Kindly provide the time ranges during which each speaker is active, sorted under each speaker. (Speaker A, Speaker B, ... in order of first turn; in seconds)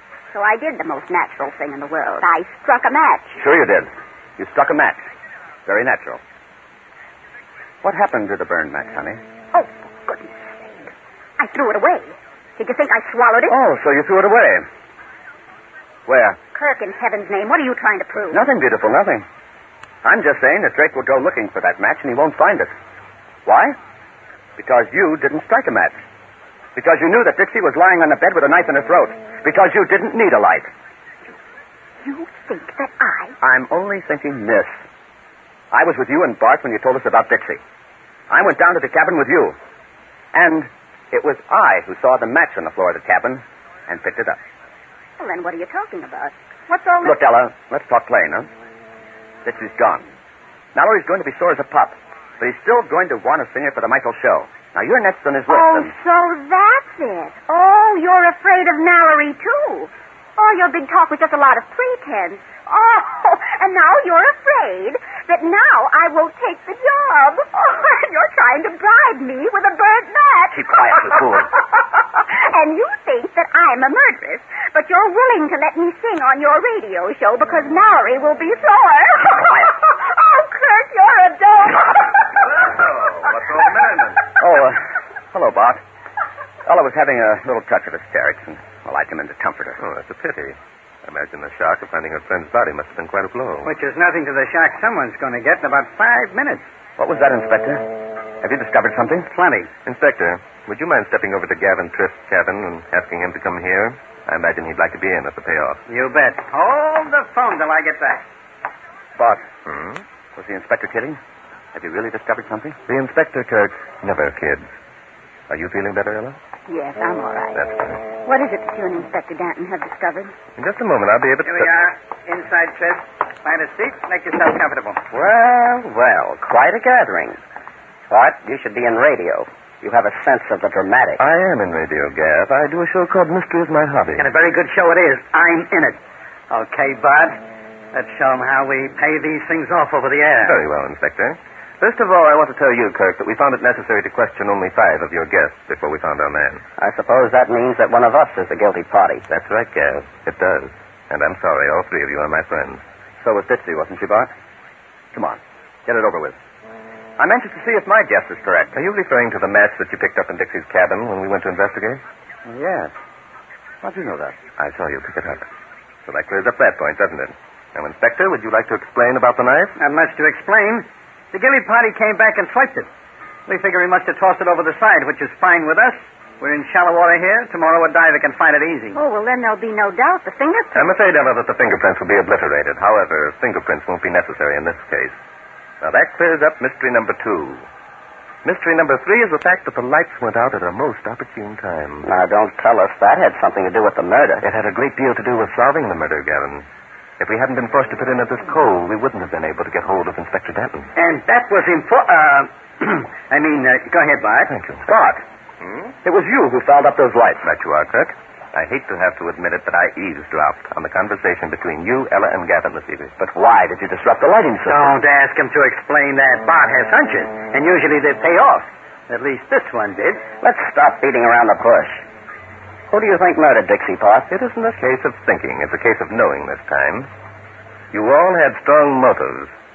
Speaker A: 0.3-3.4, 9.5-13.6, 16.5-18.4, 32.0-33.4, 45.2-47.2, 55.5-82.3, 116.7-117.7, 118.2-120.3, 178.9-180.9
Speaker B: 3.4-5.0, 5.7-6.2, 7.8-9.2, 13.5-14.7, 16.1-16.4, 18.3-19.2, 20.0-22.7, 23.5-23.8, 24.6-26.0, 26.8-30.7, 33.4-34.7, 35.7-37.6, 38.3-39.5, 40.3-44.4, 47.0-48.5, 49.4-50.0, 50.8-55.9, 70.5-71.5, 84.4-85.8, 86.7-89.8, 97.0-97.8, 98.4-99.3, 109.2-109.5, 110.4-111.2, 111.8-112.8, 153.2-154.3, 155.1-156.4, 157.2-158.8, 162.5-162.9, 163.8-164.4, 204.9-205.2, 206.0-207.4, 213.2-214.9
Speaker C: 82.5-84.3, 89.8-93.8, 99.8-105.8, 109.7-110.0, 112.9-114.7, 115.5-116.4, 117.5-118.0, 120.6-121.7, 131.2-134.3, 140.4-146.6, 149.3-152.8, 158.8-162.0, 164.6-165.5, 166.1-169.8, 180.8-185.2, 185.8-187.6, 188.4-192.1, 194.4-196.7, 197.2-200.9, 204.5-204.8, 207.4-213.2, 224.3-227.1, 227.9-229.5
Speaker D: 93.6-96.7, 99.3-99.7, 105.9-108.2, 121.5-125.0, 134.2-136.0, 136.5-137.4, 137.9-140.6, 169.8-172.9, 173.5-179.0, 201.0-204.6, 214.7-220.2
Speaker E: 125.1-127.4, 128.1-131.2, 146.8-149.2, 192.0-194.4, 220.4-222.0, 222.9-224.3